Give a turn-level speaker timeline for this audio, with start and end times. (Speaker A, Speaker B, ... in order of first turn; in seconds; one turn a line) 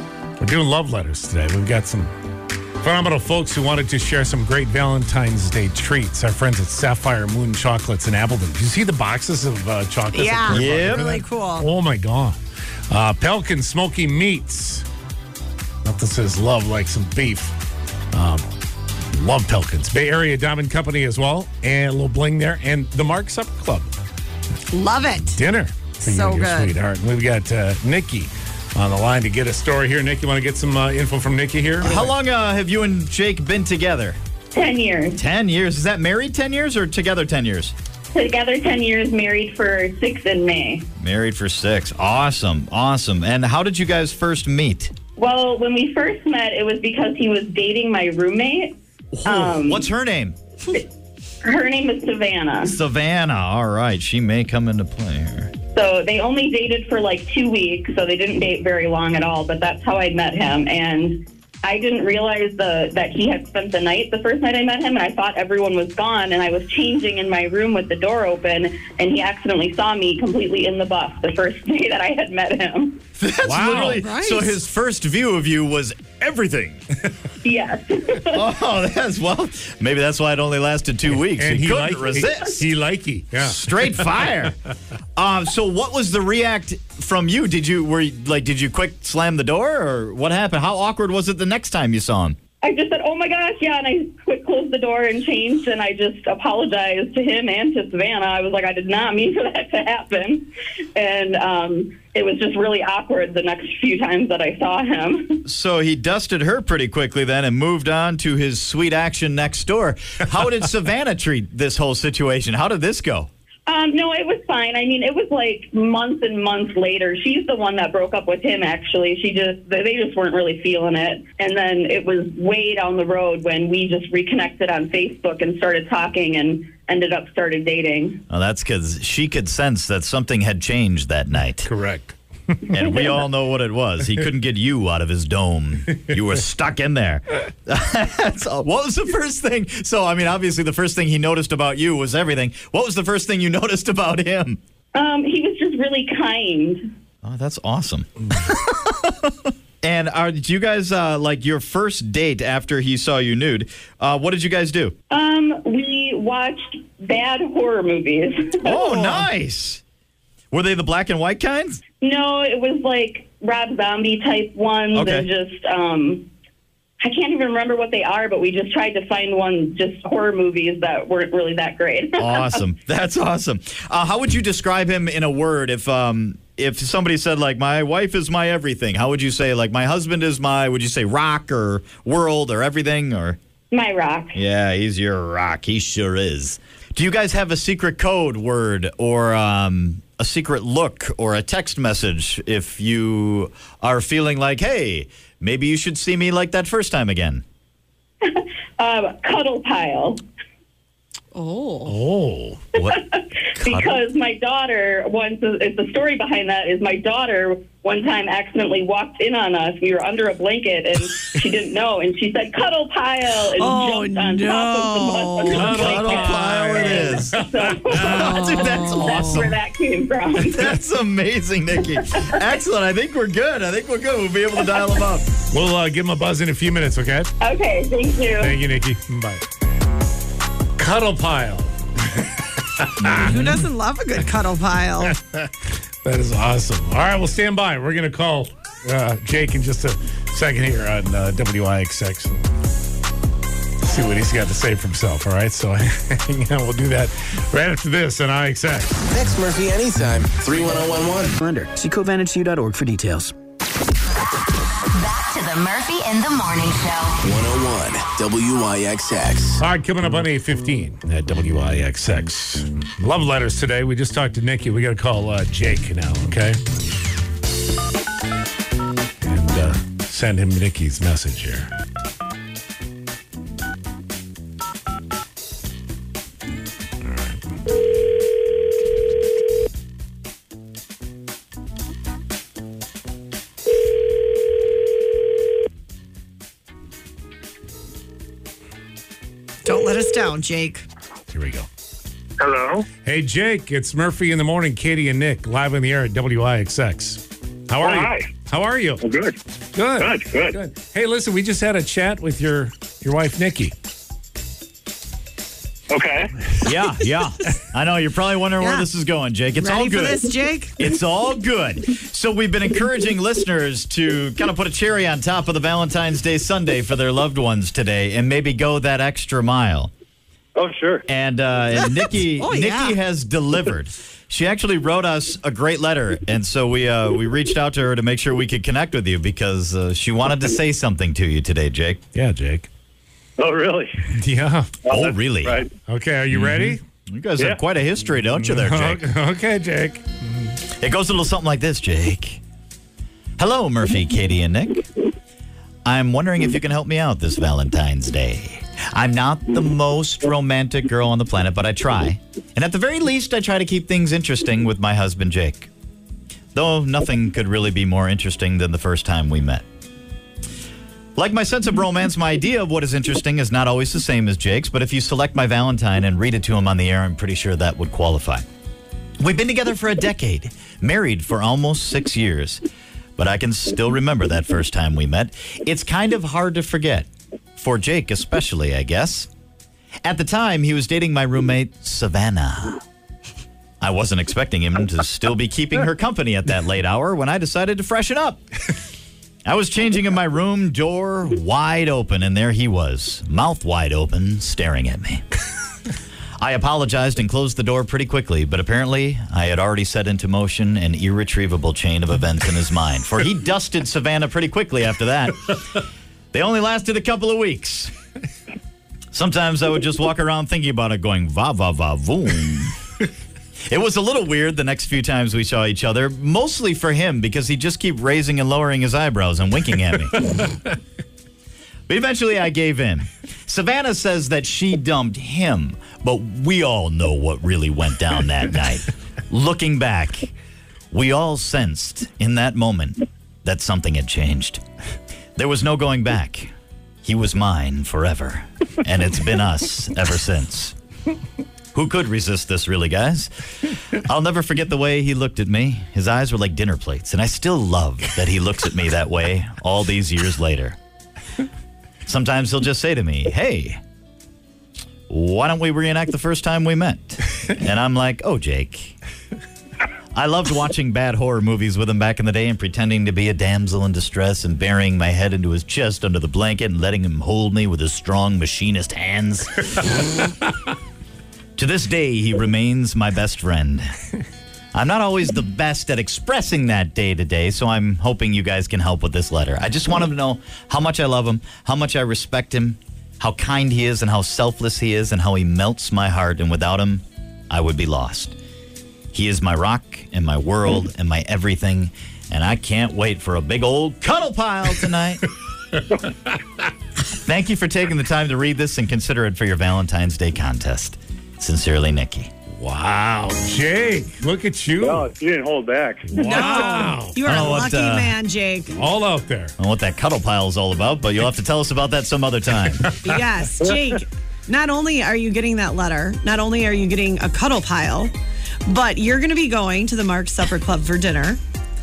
Speaker A: 0.4-2.1
Speaker A: 2.8-12.4
Speaker B: 10.1-11.7
Speaker C: 10.5-11.2
Speaker A: 12.9-14.8
Speaker A: 15.8-17.6
Speaker A: 18.1-18.4
Speaker A: 19.1-23.9
Speaker B: 24.7-25.4
Speaker A: 25.3-32.0
Speaker B: 26.0-26.8
Speaker C: 31.8-34.2
Speaker D: 34.5-35.2
Speaker C: 35.2-37.7
Speaker D: 38.1-40.9
Speaker C: 41.0-44.9
Speaker D: 45.2-49.9
Speaker C: 49.1-50.4
Speaker D: 51.4-52.8
Speaker C: 52.6-55.5
Speaker D: 55.7-73.0
Speaker C: 73.2-76.8
Speaker A: 73.4-74.0
Speaker B: 73.8-74.6
Speaker D: 77.4-78.4
Speaker C: 78.3-82.6
Speaker A: 81.1-84.1
Speaker C: 83.4-84.6
Speaker C: 85.2-92.4
Speaker D: 92.6-105.4
Speaker C: 105.4-113.3
Speaker D: 113.7-128.2
Speaker C: 128.3-131.7
Speaker A: 131.7-132.7
Speaker C: 132.7-144.6
Speaker D: 144.9-146.9
Speaker C: 147.2-154.9
Speaker D: 155.1-159.1
Speaker C: 158.6-159.8
Speaker C: 160.5-161.8
Speaker D: 162.0-166.3
Speaker C: 164.9-165.3
Speaker D: 167.0-172.6
Speaker C: 172.2-183.4
Speaker D: 183.7-184.4
Speaker C: 184.3-197.4
Speaker D: 198.2-200.2
Speaker B: 201.3-201.9
Speaker A: 201.9-202.6
Speaker C: 202.7-203.0
Speaker D: 202.8-220.8
Speaker C: 203.6-204.0
Speaker B: 213.5-215.8
Speaker A: 215.4-218.4
Speaker C: 215.5-219.6
Speaker B: 218.6-219.4
Speaker A: 219.0-219.3
Speaker C: 220.4-225.3
Speaker D: 222.0-222.5
Speaker A: 225.5-227.3
Speaker D: 227.4-228.6
Speaker A: 228.4-229.5
Speaker A: 230.8-233.5
Speaker B: 233.1-235.2
Speaker A: 235.0-235.5
Speaker A: 236.0-242.4
Speaker A: 243.8-249.0
Speaker E: 249.1-251.4
Speaker F: 251.4-253.3
Speaker G: 254.9-257.1
Speaker E: 257.2-259.6
Speaker A: 259.6-266.6
Speaker A: 269.2-271.7
Speaker A: 277.0-277.5
Speaker B: 289.6-290.9
Speaker A: 291.3-291.7
Speaker H: 292.4-292.9
Speaker A: 293.1-299.0
Speaker H: 297.8-298.3
Speaker H: 299.0-299.4
Speaker A: 299.7-303.7
Speaker H: 300.0-300.6
Speaker H: 305.9-306.3
Speaker C: 306.6-319.9
Speaker B: 308.6-308.9
Speaker B: 309.6-310.8
Speaker H: 320.6-321.0
Speaker C: 321.1-332.0
Speaker B: 321.8-323.0
Speaker A: 332.1-332.7
Speaker H: 333.4-334.0
Speaker A: 334.1-334.8
Speaker H: 334.9-335.7
Speaker C: 334.9-335.6
Speaker A: 335.9-336.8
Speaker C: 336.3-339.1
Speaker A: 338.4-340.2
Speaker C: 340.8-342.4
Speaker C: 343.4-344.9
Speaker C: 345.9-355.7
Speaker C: 356.5-359.6
Speaker C: 361.2-368.5
Speaker C: 369.2-372.6
Speaker C: 373.2-379.3
Speaker C: 380.1-382.8
Speaker C: 383.8-388.4
Speaker C: 389.4-395.2
Speaker C: 396.4-407.9
Speaker C: 409.1-412.8
Speaker C: 413.7-420.4
Speaker C: 421.9-430.3
Speaker C: 430.9-434.6
Speaker C: 435.4-436.5
Speaker C: 437.0-440.8
Speaker C: 441.7-450.8
Speaker C: 452.1-453.8
Speaker C: 455.1-458.9
Speaker C: 460.1-470.1
Speaker C: 471.6-473.9
Speaker C: 474.7-488.4
Speaker C: 489.1-495.3
Speaker C: 497.1-502.3
Speaker A: 502.5-505.1
Speaker H: 504.8-506.5
Speaker A: 506.1-507.4
Speaker B: 506.2-508.8
Speaker C: 507.2-508.2
Speaker A: 508.7-509.5
Speaker C: 509.6-512.9
Speaker A: 512.8-513.1
Speaker B: 513.0-518.1
Speaker B: 518.6-521.4